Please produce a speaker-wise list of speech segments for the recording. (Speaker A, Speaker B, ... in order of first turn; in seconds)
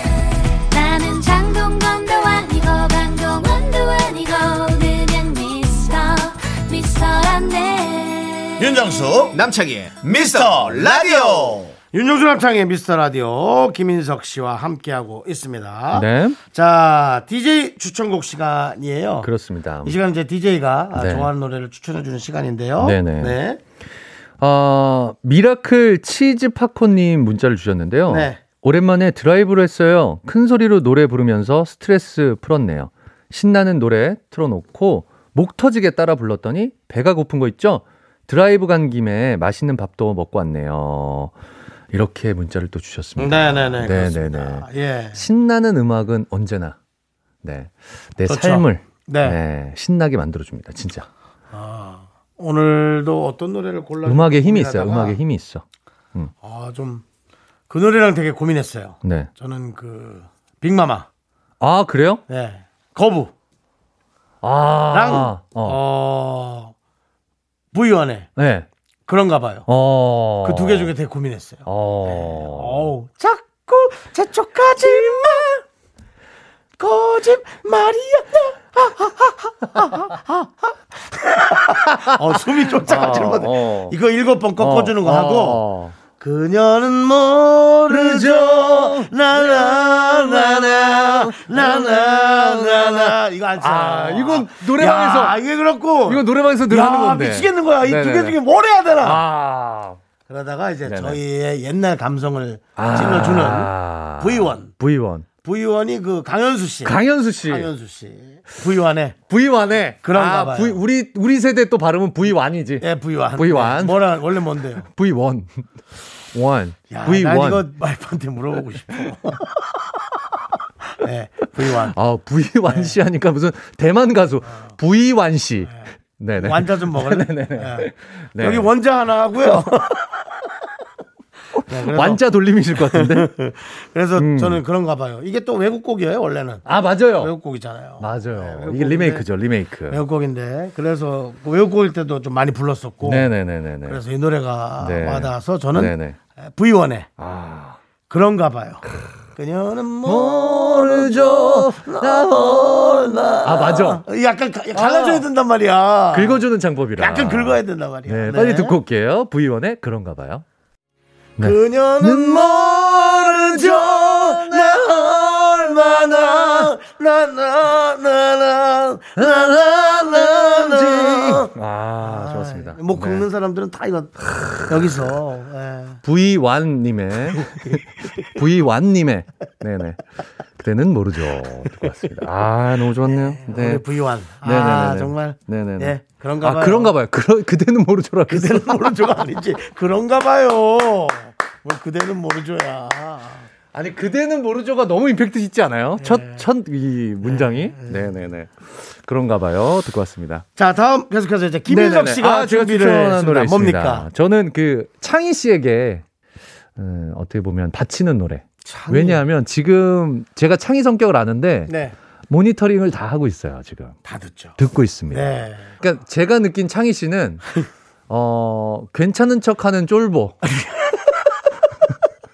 Speaker A: 0.7-8.6
Speaker B: 8.6-11.8
Speaker C: 11.9-19.3, 19.8-23.6, 28.1-28.4, 43.2-45.2, 48.2-49.4, 51.5-55.2, 56.4-57.0, 57.7-61.1, 62.3-63.3, 64.9-66.7, 67.7-68.3, 69.1-69.7, 70.4-75.6, 76.8-85.6, 86.2-99.2, 100.3-104.7, 105.4-109.2, 110.0-110.8, 112.8-114.9, 116.9-119.8, 120.9-122.0, 122.7-122.9, 124.5-124.7, 125.7-130.1, 131.6-132.2, 132.8-139.2, 139.9-143.3, 143.8-147.1, 148.1-148.8, 149.3-156.4, 157.0-158.8, 161.4-176.0, 177.4-178.3, 183.1-186.9, 188.3-193.4, 196.0-196.4, 197.2-198.1, 200.6-204.1, 208.6-209.2, 211.7-211.9, 214.0-214.6, 215.1-215.7, 220.5-221.0
Speaker D: 15.9-16.4, 19.2-19.9, 20.9-21.3, 22.8-23.4, 24.4-41.3, 41.9-46.8, 47.4-51.1, 54.0-55.6, 59.0-59.3, 61.6-62.2, 64.4-65.8, 68.4-68.7, 69.7-70.9, 71.7-72.8, 82.0-84.0, 84.6-86.0, 87.9-95.4, 96.0-98.4, 99.0-100.0, 100.8-101.2, 102.8-105.3, 106.8-107.7, 109.3-114.1, 114.8-115.6, 116.3-117.7, 121.6-128.7, 129.4-129.8, 131.7-133.3, 134.2-134.6, 136.7-137.3, 138.0-140.0, 143.0-144.0, 144.8-146.2, 147.2-147.8, 150.0-154.0, 154.7-155.3, 156.1-160.4, 161.4-165.0, 165.6-166.7, 169.2-173.2, 174.3-174.8, 176.0-180.0, 180.6-183.8, 184.4-189.1, 193.7-200.4, 201.7-206.0, 206.8-211.7, 212.3-214.0, 214.6-217.4, 218.1-220.4